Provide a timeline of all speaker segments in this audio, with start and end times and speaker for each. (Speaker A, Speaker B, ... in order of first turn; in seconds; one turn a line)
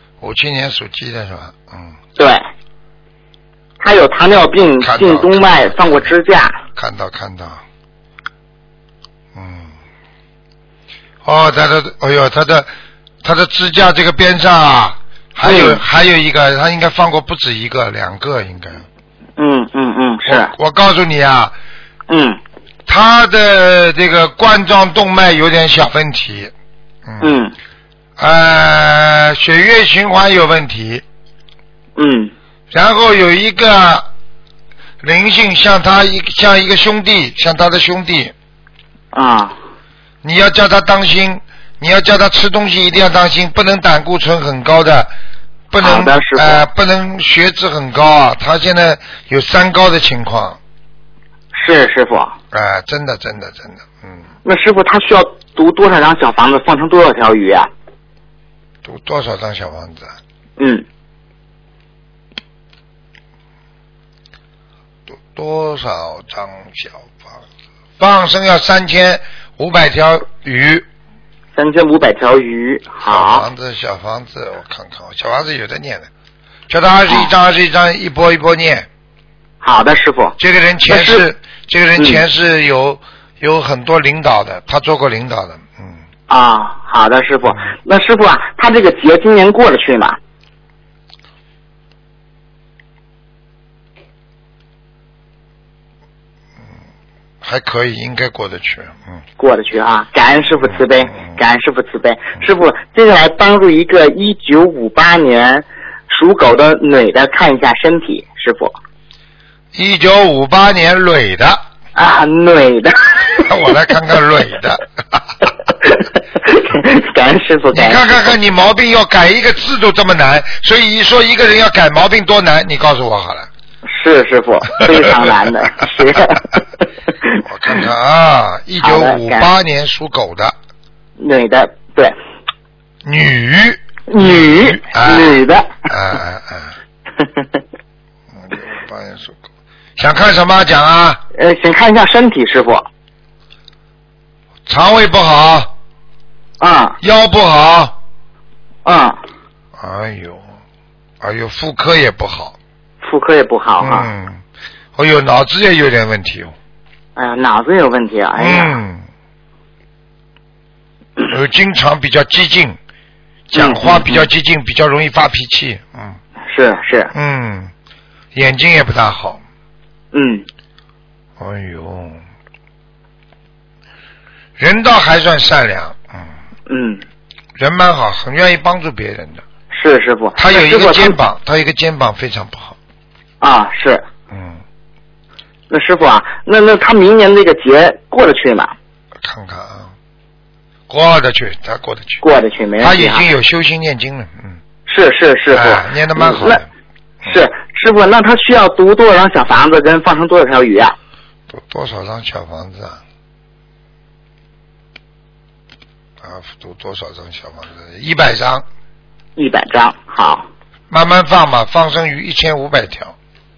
Speaker A: 0.2-2.0
Speaker B: 2.2-2.5
Speaker B: 3.8-6.6
Speaker A: 4.8-6.1
Speaker A: 6.7-7.6
Speaker A: 9.3-9.7
Speaker A: 11.2-12.7
Speaker A: 13.2-18.9
Speaker B: 15.4-15.8
Speaker B: 19.4-20.5
Speaker A: 20.3-21.5
Speaker B: 22.1-22.4
Speaker A: 22.9-26.5
Speaker A: 27.1-27.3
Speaker B: 27.2-27.5
Speaker A: 28.2-31.0
Speaker B: 32.0-32.3
Speaker A: 32.7-34.1
Speaker A: 35.0-38.3
Speaker B: 39.1-39.6
Speaker A: 40.2-45.1
Speaker A: 45.7-50.6
Speaker B: 45.8-46.6
Speaker B: 51.5-52.4
Speaker A: 52.5-54.2
Speaker B: 54.5-57.7
Speaker A: 58.8-60.1
Speaker B: 60.6-60.9
Speaker A: 65.1-67.2
Speaker A: 68.0-70.9
Speaker B: 71.5-73.5
Speaker A: 73.1-76.1
Speaker A: 76.7-78.9
Speaker B: 79.6-80.4
Speaker A: 80.4-86.0
Speaker B: 80.9-81.2
Speaker B: 82.0-82.2
Speaker B: 86.3-90.2
Speaker A: 97.4-99.2
Speaker B: 99.4-108.8
Speaker A: 100.6-101.4
Speaker A: 109.7-111.6
Speaker B: 112.0-113.4
Speaker A: 113.5-115.2
Speaker B: 115.8-118.1
Speaker A: 117.7-123.5
Speaker B: 123.9-126.6
Speaker A: 124.8-126.4
Speaker A: 127.5-130.6
Speaker B: 128.8-129.5
Speaker B: 131.2-132.2
Speaker A: 133.0-136.8
Speaker B: 134.1-135.8
Speaker A: 138.4-139.4
Speaker A: 140.0-141.2
Speaker B: 141.4-142.9
Speaker A: 144.7-145.7
Speaker B: 146.6-147.0
Speaker A: 147.0-147.9
Speaker B: 148.8-149.2
Speaker A: 149.8-150.4
Speaker A: 151.2-152.6
Speaker B: 153.0-154.1
Speaker A: 153.8-154.4
Speaker A: 154.9-156.5
Speaker B: 157.2-158.8
Speaker A: 158.4-159.1
Speaker A: 161.3-162.8
Speaker A: 163.5-166.2
Speaker B: 163.5-164.3
Speaker B: 166.5-167.1
Speaker A: 167.1-167.7
Speaker A: 168.3-169.4
Speaker B: 170.1-170.5
Speaker A: 171.4-172.2
Speaker A: 174.6-176.3
Speaker B: 176.7-177.0
Speaker A: 177.6-179.4
Speaker B: 179.7-181.2
Speaker A: 180.4-182.8
Speaker B: 183.4-184.1
Speaker A: 184.3-184.6
Speaker B: 185.7-188.8
Speaker A: 189.2-189.9
Speaker A: 190.9-192.2
Speaker B: 192.2-193.2
Speaker A: 192.8-194.6
Speaker B: 194.9-196.6
Speaker A: 195.5-196.7
Speaker B: 197.2-200.9
Speaker A: 201.5-203.0
Speaker A: 206.2-208.7
Speaker B: 209.4-210.5
Speaker A: 210.9-213.1